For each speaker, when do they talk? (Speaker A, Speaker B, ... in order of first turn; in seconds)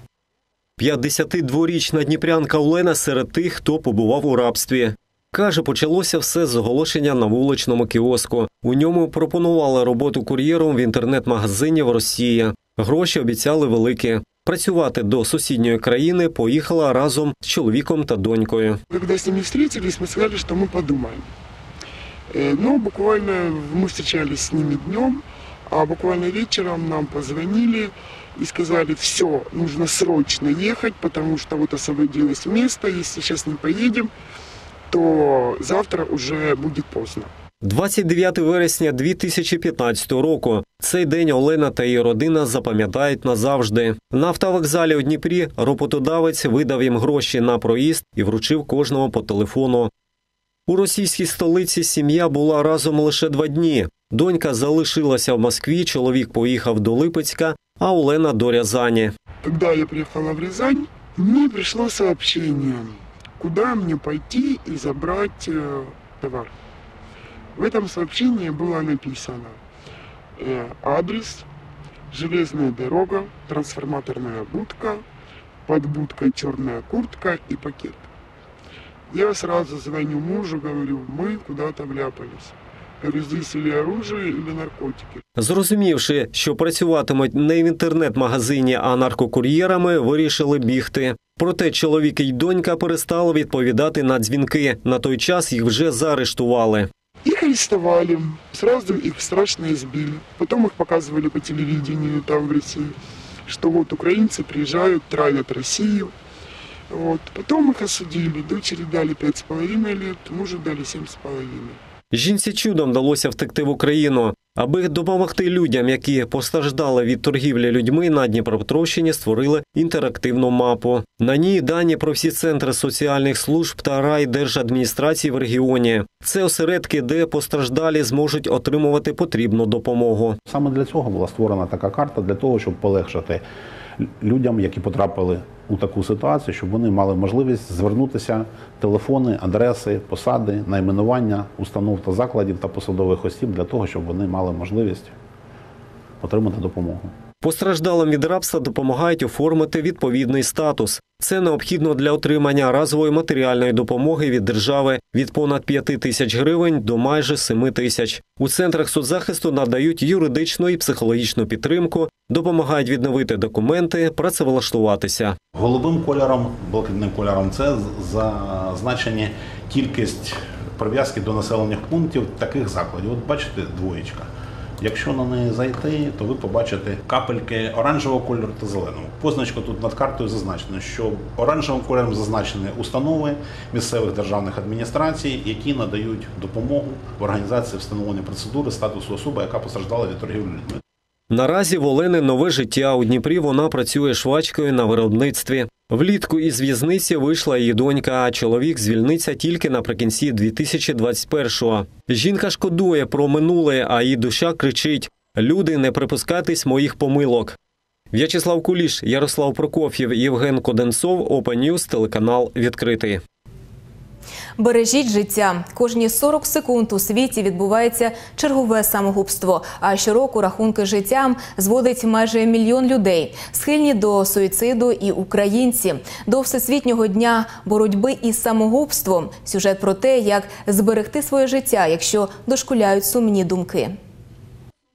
Speaker A: 0.8-18.8, 37.6-49.9, 50.7-59.1, 85.4-96.9, 112.1-130.3, 147.4-165.3, 191.3-207.6, 208.1-213.2
Speaker B: 18.9-21.3, 22.3-34.1, 34.9-37.3, 59.4-66.5, 67.5-69.6, 70.4-71.5, 72.1-75.0, 75.7-78.1, 79.1-85.2, 97.2-102.9, 103.5-106.1, 106.9-111.8
Speaker C: 130.4-133.4, 134.0-145.1, 146.2-147.1, 165.5-190.8
Speaker D: 214.6-233.9